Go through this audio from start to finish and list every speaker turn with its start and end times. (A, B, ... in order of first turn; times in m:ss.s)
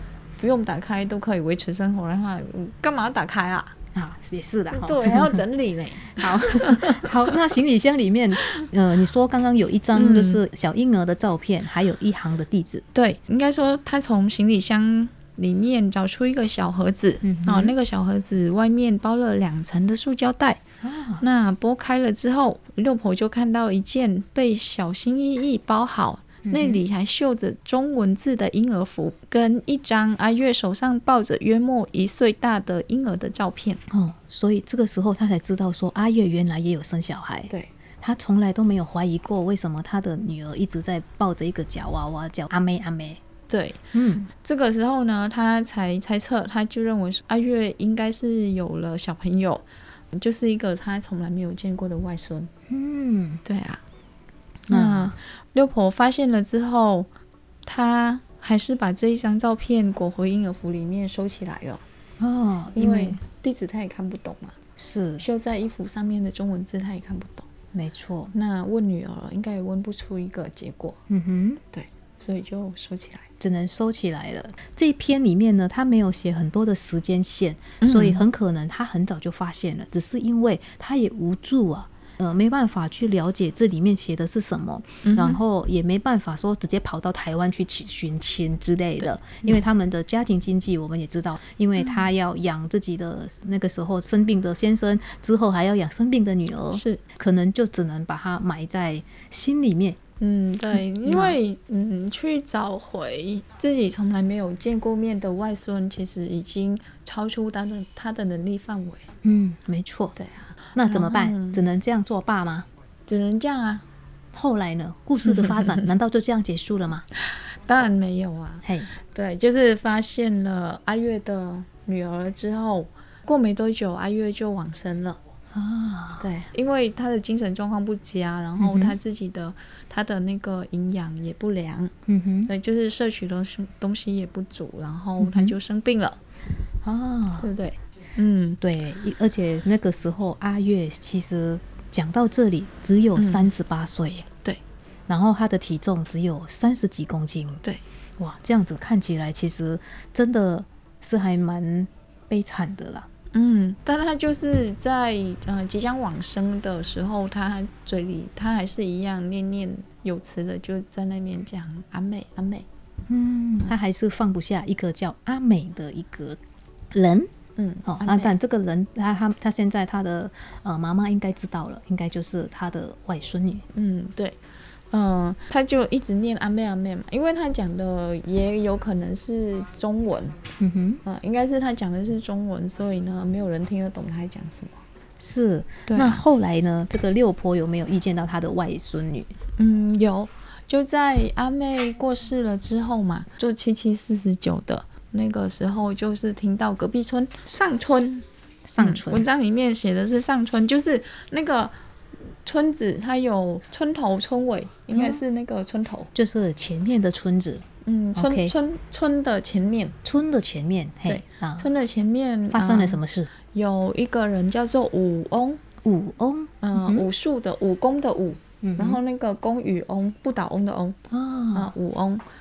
0:00.4-0:03.8 A
0:03.9-0:05.4 B
0:04.7-0:07.1 A
0:06.2-0:12.8 B
0:09.9-0:10.4 A
0:12.9-0:20.6 A
0:17.2-0:17.7 B
0:20.8-0:21.2 B
0:21.2-0:33.8 A
0:26.5-0:26.8 B
0:33.9-0:43.2 B
0:43.5-0:52.5 A
0:43.9-0:44.3 B
0:52.7-0:53.4 B
0:53.4-0:53.8 A
0:54.7-0:57.1 A
0:54.7-0:55.2 B
0:57.6-1:01.8 A
1:02.2-1:03.2 B
1:02.7-1:04.6 A
1:04.8-1:05.2 B
1:05.2-1:07.5 A
1:07.7-1:08.3 B
1:08.3-1:11.0 A
1:11.1-1:11.6 B
1:11.7-1:13.3 A
1:13.4-1:40.0 B
1:17.8-1:18.2 A
1:25.0-1:25.4 A
1:29.0-1:29.5 A
1:36.7-1:37.0 A
1:40.2-1:49.1 A
1:41.0-1:41.4 B
1:49.2-1:50.2 B
1:50.2-1:51.6 A
1:50.7-1:52.7 B
1:53.1-1:53.8 A
1:54.3-1:57.0 B
1:55.2-1:55.8 A
1:57.2-2:05.2 A
2:05.5-2:06.3 B
2:06.2-2:11.9 A
2:08.6-2:09.0 B
2:12.1-2:12.5 B
2:12.5-2:16.2 A
2:15.2-2:15.6 B
2:16.8-2:17.5 B
2:17.4-2:18.6 A
2:18.6-2:24.3 B
2:23.2-2:23.5 A
2:25.1-2:27.6 B
2:28.2-2:33.1 B
2:33.3-2:42.6 A
2:43.1-2:46.4 B
2:46.9-2:47.3 B
2:47.6-2:48.3 A
2:47.8-2:53.6 B
2:53.7-2:54.4 A
2:54.9-3:00.4 A
3:00.6-3:01.0 B
3:01.0-3:04.8 A
3:05.2-3:09.3 B
3:05.9-3:06.2 A
3:09.6-3:18.2 A
3:18.7-3:19.2 B
3:18.8-3:21.7 A
3:22.4-3:26.1 A
3:24.9-3:25.2 B
3:26.1-3:27.6 B
3:27.8-3:30.0 A
3:28.1-3:28.5 B
3:30.0-3:31.7 B
3:31.0-3:33.0 A
3:32.5-3:33.3 B
3:33.5-3:35.6 A
3:35.8-3:37.1 B
3:36.6-3:41.0 A
3:38.6-3:39.0 B
3:41.1-3:41.7 B
3:41.5-3:42.2 A